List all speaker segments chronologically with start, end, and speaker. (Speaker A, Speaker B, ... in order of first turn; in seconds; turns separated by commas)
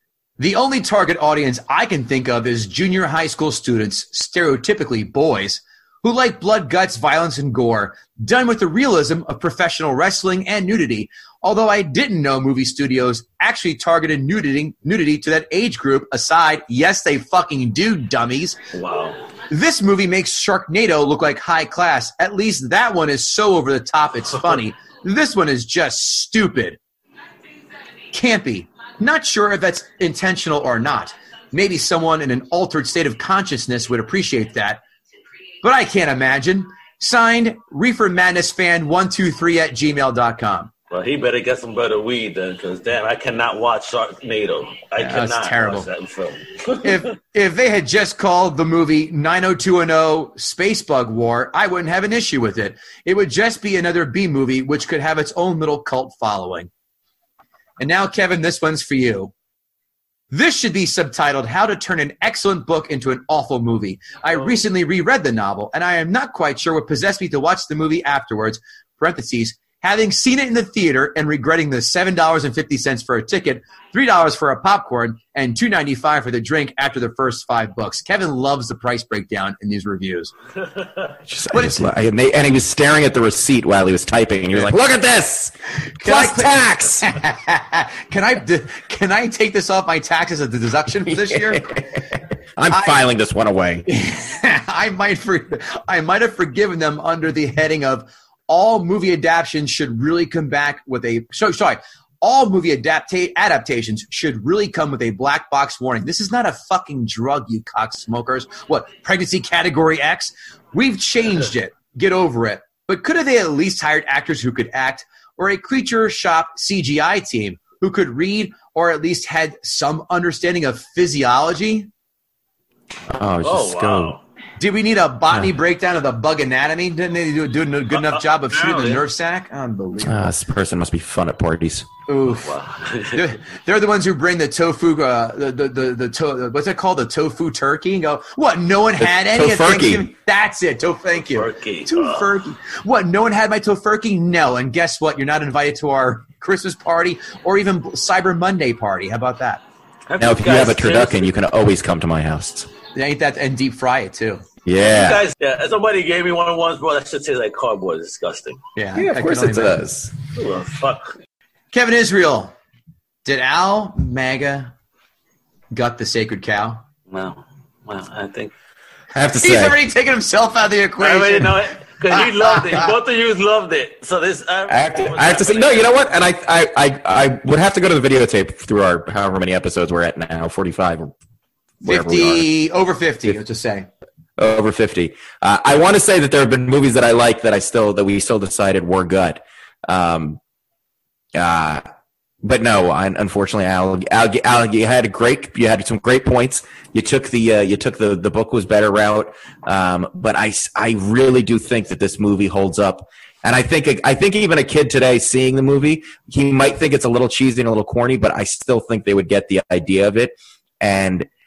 Speaker A: 0.4-18.6, Speaker B: 18.7-19.2, Speaker A: 19.5-26.8, Speaker A: 28.1-34.8, Speaker A: 35.6-40.7, Speaker B: 40.9-47.0, Speaker A: 45.0-45.9, Speaker A: 46.8-56.7, Speaker A: 57.8-59.3, Speaker A: 60.3-80.3, Speaker C: 81.3-87.1, Speaker A: 81.5-81.9, Speaker A: 86.0-91.8, Speaker C: 91.3-91.8, Speaker C: 92.6-93.9, Speaker A: 92.7-93.0, Speaker A: 93.8-121.9, Speaker C: 123.1-124.2, Speaker B: 123.4-124.2, Speaker A: 124.6-130.3, Speaker B: 128.1-129.0, Speaker C: 130.0-131.9, Speaker A: 132.1-132.6, Speaker B: 132.4-133.2, Speaker A: 133.1-149.6, Speaker C: 139.0-140.0, Speaker B: 141.2-142.3, Speaker B: 150.1-151.3, Speaker C: 150.2-152.7, Speaker A: 152.9-154.4, Speaker C: 154.6-155.2, Speaker B: 154.8-158.6, Speaker A: 158.8-159.8, Speaker C: 158.9-160.1, Speaker B: 160.3-161.2, Speaker A: 161.7-162.5, Speaker A: 163.2-164.7, Speaker A: 165.7-166.8, Speaker B: 167.1-168.5, Speaker C: 169.1-169.8, Speaker A: 169.3-172.9, Speaker B: 171.0-175.9, Speaker C: 174.7-181.1, Speaker C: 181.8-182.5, Speaker A: 181.8-183.9, Speaker C: 184.4-190.4, Speaker C: 191.3-191.8, Speaker C: 192.4-211.3